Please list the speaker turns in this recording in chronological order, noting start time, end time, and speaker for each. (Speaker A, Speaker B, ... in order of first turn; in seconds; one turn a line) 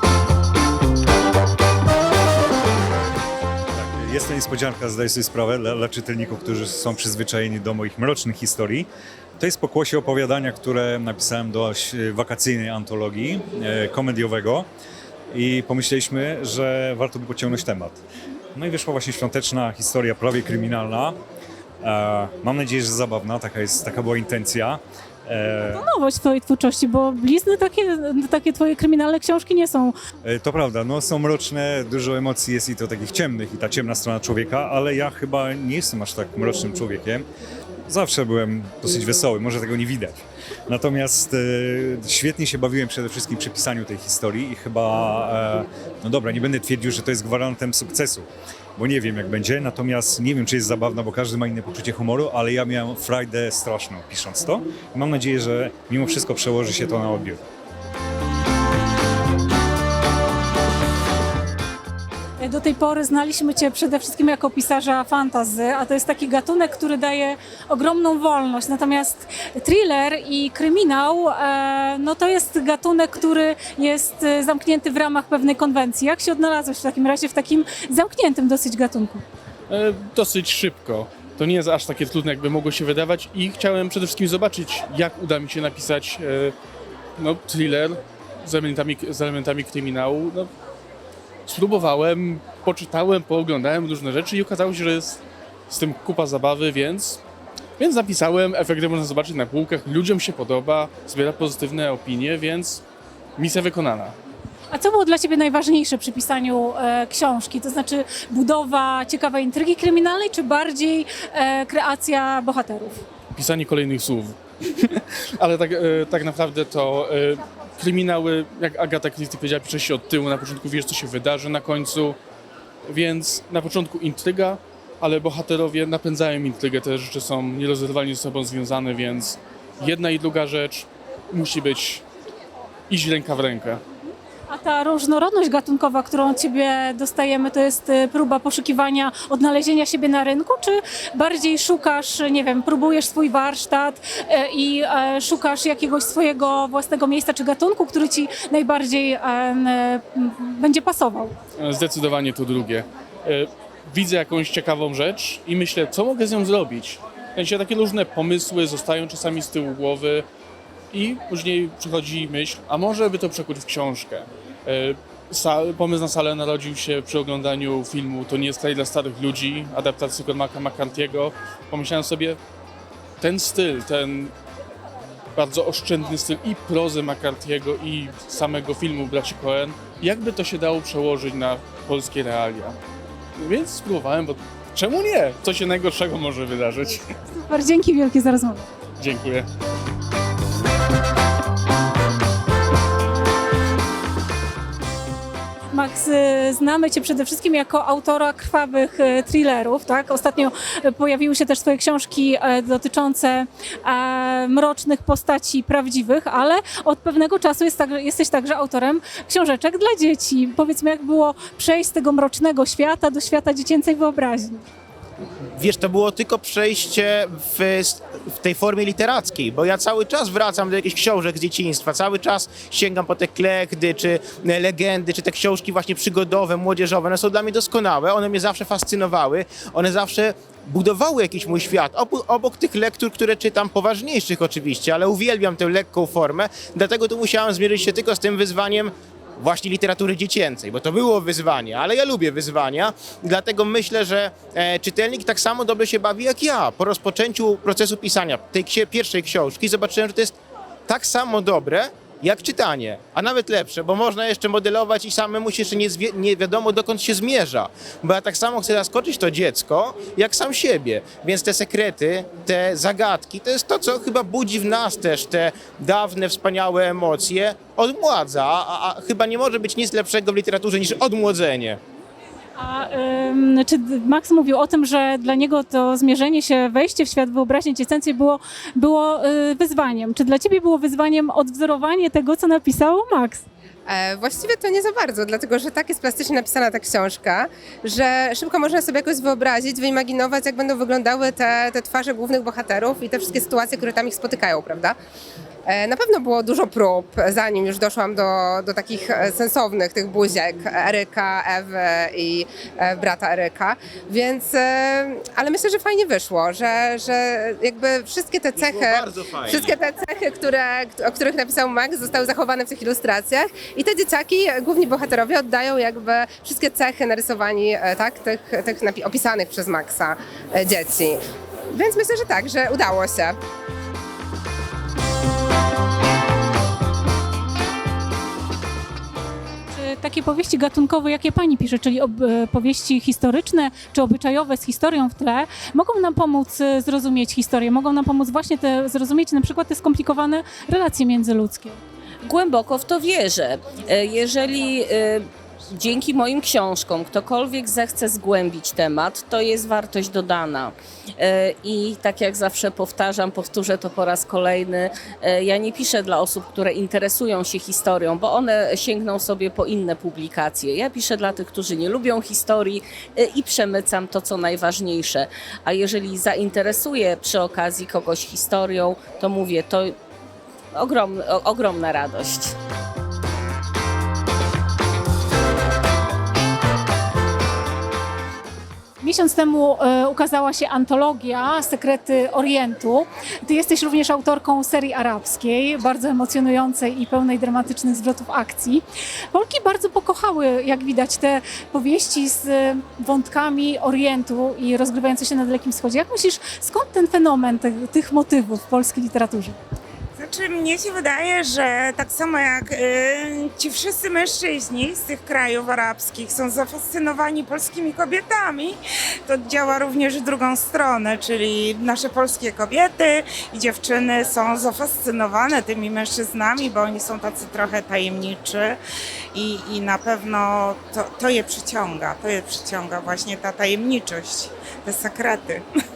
Speaker A: 3.7-14.7
Speaker A: 15.3-18.0
Speaker A: 18.6-21.2
Speaker A: 21.8-25.8
Speaker B: 25.7-29.9
Speaker A: 30.2-37.2
Speaker A: 37.9-57.4
Speaker B: 62.4-79.2
Speaker C: 79.7-86.5
Speaker C: 87.2-90.5
Speaker C: 91.5-97.2
Speaker C: 97.8-102.8
Speaker C: 103.4-104.2
Speaker B: 104.7-113.0
Speaker C: 113.3-122.2
Speaker C: 122.9-132.0
Speaker C: 132.9-133.8
Speaker B: 134.5-151.4
Speaker C: 151.6-160.3
Speaker C: 160.9-172.4
Speaker C: 173.2-174.3
Speaker C: 175.3-182.8
Speaker C: 183.4-187.1
Speaker B: 187.3-188.7
Speaker C: 189.0-189.5
Speaker B: 195.7-214.7
Speaker D: 215.6-250.3
Speaker D: 250.9-271.8
Speaker B: 272.6-283.4
Speaker E: 283.9-295.0
Speaker E: 295.7-321.2
Speaker D: 308.5-309.8
Speaker E: 321.7-323.4
Speaker B: 329.7-341.8
Speaker F: 342.2-370.0
Speaker F: 370.8-372.5
Speaker B: 379.0-399.6
Speaker G: 400.2-408.8
Speaker G: 409.3-418.8
Speaker G: 419.3-425.6